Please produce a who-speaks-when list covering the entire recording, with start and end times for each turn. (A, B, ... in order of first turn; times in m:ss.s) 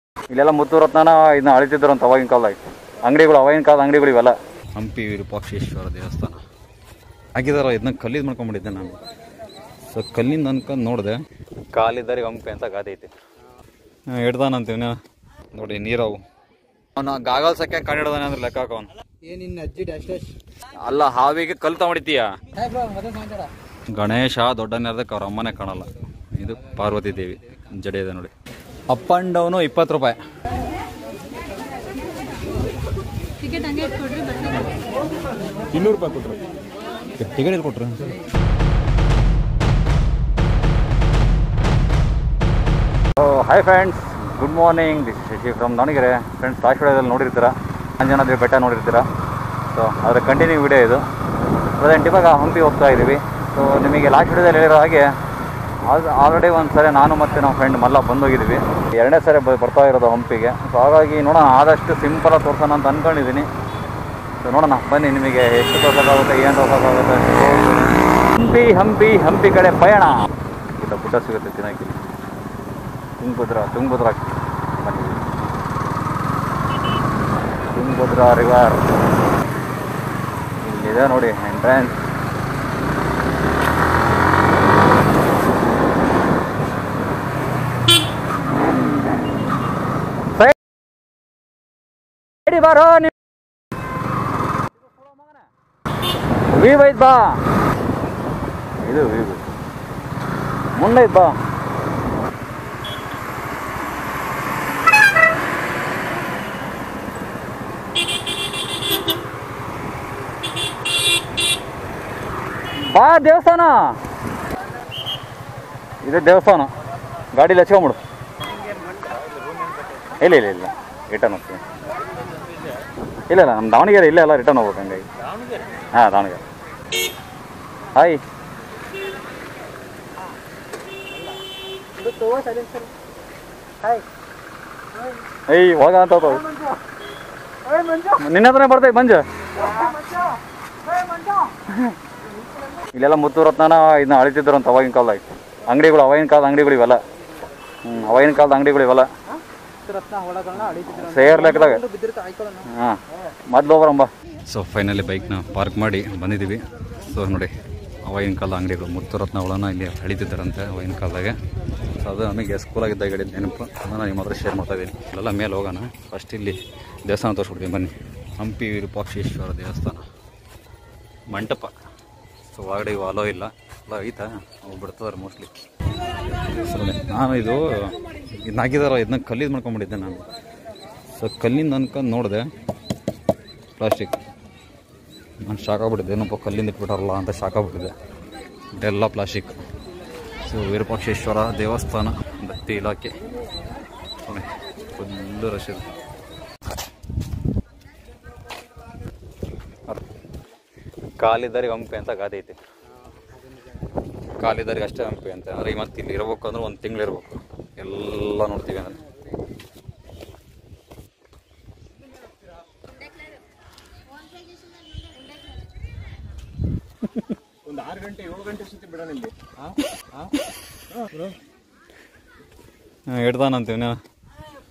0:00.3-0:06.4 A
0:07.4-0:09.0 A
0:09.9-0:11.2 A
0:11.7-0:13.1 A
0:14.1-0:15.0 A
0:15.5-0:16.2 A
0:17.0-0:18.9 A
0:19.2-0:20.3 B
0:20.8-0:22.3 A
0:22.5-0:23.5 B
0:23.9-0:28.3 A
0:28.9-0:30.2 A
0:33.4-0:34.3 B
0:35.7-0:36.4 C
0:37.2-0:38.1 A
0:43.2-0:49.1 A
0:49.7-0:51.0 A
0:51.8-0:55.1 A
0:55.8-1:03.5 A
1:04.4-1:12.0 A
1:13.2-1:15.2 A
1:17.7-1:18.8 A
1:20.6-1:22.0 A
1:32.4-1:33.1 A
1:36.5-1:37.4 A
1:38.8-1:39.5 A
1:40.8-1:41.4 A
1:52.8-1:53.9 A
1:56.0-1:56.7 A
1:57.3-1:58.0 A
1:58.9-2:00.1 C
2:00.2-2:01.6 A
2:03.3-2:05.1 A
2:05.3-2:05.6 C
2:05.9-2:06.4 A
2:07.9-2:08.2 A
2:11.9-2:12.9 B
2:15.5-2:16.4 A
2:18.0-2:19.2 A
2:19.8-2:20.2 B
2:21.0-2:21.4 B
2:22.9-2:27.0 A
2:27.8-2:29.1 A
2:29.8-2:32.7 B
2:30.6-2:31.8 A
2:32.6-2:37.5 A
2:38.0-2:41.4 A
2:42.0-2:50.0 A
2:51.3-2:51.7 A
2:52.5-2:55.5 A
2:56.5-3:00.2 A
3:01.1-3:02.4 A
3:03.8-3:04.2 A
3:05.4-3:07.9 A
3:08.7-3:09.6 A
3:10.5-3:13.1 A
3:14.2-3:15.8 A
3:21.2-3:22.6 A
3:23.1-3:23.6 B
3:24.4-3:29.0 A
3:37.6-3:39.5 C
3:40.9-3:41.3 C
3:43.1-3:44.0 A